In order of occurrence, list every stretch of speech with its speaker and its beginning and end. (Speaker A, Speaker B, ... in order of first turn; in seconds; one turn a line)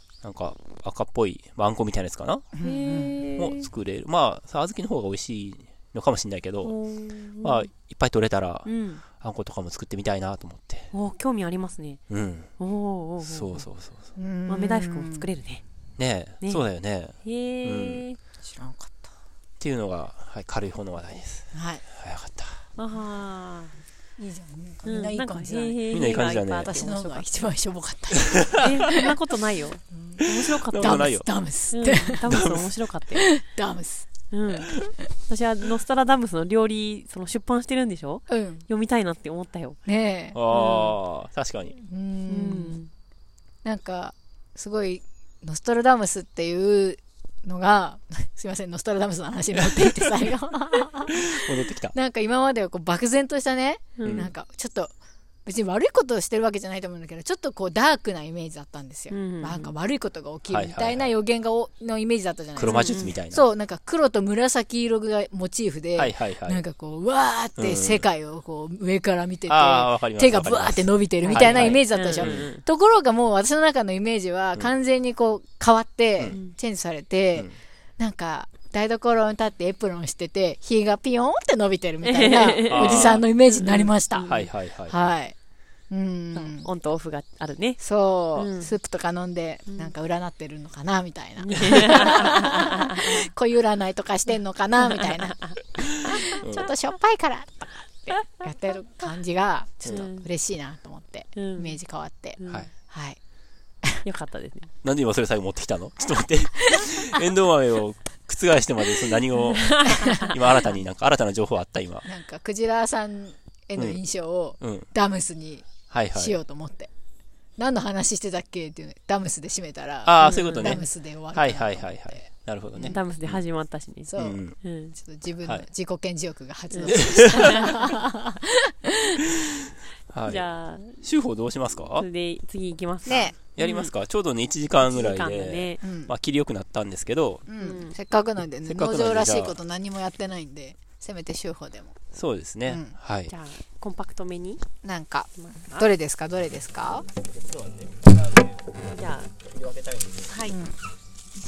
Speaker A: 0.2-2.5
Speaker B: 2.5-3.2
Speaker C: 2.6-3.7
Speaker A: 3.4-6.7
Speaker C: 6.6-7.7
Speaker A: 7.4-10.9
Speaker C: 8.7-9.0
Speaker C: 10.9-12.0
Speaker A: 12.1-12.5
Speaker C: 12.6-13.7
Speaker A: 13.2-14.1
Speaker B: 14.2-15.3
Speaker C: 14.5-15.6
Speaker A: 16.0-18.0
Speaker C: 17.2-18.2
Speaker B: 18.4-19.1
Speaker A: 19.6-22.6
Speaker B: 21.5-21.8
Speaker C: 22.8-23.7
Speaker B: 24.2-29.1
Speaker C: 24.9-27.5
Speaker A: 25.9-26.7
Speaker C: 28.6-33.3
Speaker B: 29.9-30.3
Speaker A: 30.6-31.3
Speaker B: 30.8-32.2
Speaker A: 32.3-32.7
Speaker B: 33.1-34.1
Speaker C: 34.3-39.8
Speaker B: 38.3-38.6
Speaker B: 39.9-40.4
Speaker A: 40.3-41.8
Speaker C: 40.5-41.0
Speaker B: 41.8-42.8
Speaker C: 42.3-42.9
Speaker B: 43.6-51.4
Speaker A: 49.6-50.0
Speaker A: 51.1-52.0
Speaker B: 51.9-55.0
Speaker C: 54.0-54.3
Speaker A: 54.0-54.3
Speaker B: 55.5-84.3
Speaker C: 59.1-59.7
Speaker A: 60.5-61.1
Speaker A: 62.6-63.5
Speaker C: 62.6-63.2
Speaker A: 66.0-66.6
Speaker A: 67.6-68.1
Speaker A: 69.5-72.5
Speaker C: 71.2-72.6
Speaker C: 76.3-76.5
Speaker C: 82.0-84.5
Speaker A: 82.7-83.2
Speaker A: 84.3-85.0
Speaker B: 84.9-85.3
Speaker B: 85.9-86.7
Speaker C: 86.3-87.8
Speaker B: 87.8-103.2
Speaker C: 88.4-88.7
Speaker C: 91.4-93.2
Speaker C: 95.0-95.6
Speaker A: 96.4-96.7
Speaker C: 99.9-100.3
Speaker C: 101.3-101.8
Speaker C: 102.4-102.7
Speaker C: 104.0-104.7
Speaker A: 104.8-112.1
Speaker C: 109.5-110.4
Speaker B: 109.9-110.3
Speaker B: 112.1-116.9
Speaker A: 114.6-114.9
Speaker A: 115.9-116.4
Speaker B: 117.6-123.0
Speaker A: 120.0-123.4
Speaker C: 120.2-120.8
Speaker C: 122.8-125.0
Speaker B: 124.1-124.4
Speaker A: 124.2-124.6
Speaker B: 125.0-129.2
Speaker C: 126.7-127.8
Speaker A: 126.9-127.6
Speaker A: 130.1-130.4
Speaker C: 130.2-131.1
Speaker A: 131.0-132.1
Speaker C: 131.8-133.9
Speaker B: 133.1-133.4
Speaker A: 133.6-137.5
Speaker C: 134.8-135.8
Speaker B: 135.8-136.1
Speaker B: 137.5-141.9
Speaker C: 137.6-138.0
Speaker A: 138.7-139.6
Speaker A: 142.1-143.3
Speaker B: 142.7-143.0
Speaker C: 143.3-144.6
Speaker B: 144.8-147.1
Speaker C: 145.4-145.9
Speaker A: 147.3-150.3
Speaker C: 148.9-149.3
Speaker C: 150.3-150.6
Speaker B: 150.5-150.8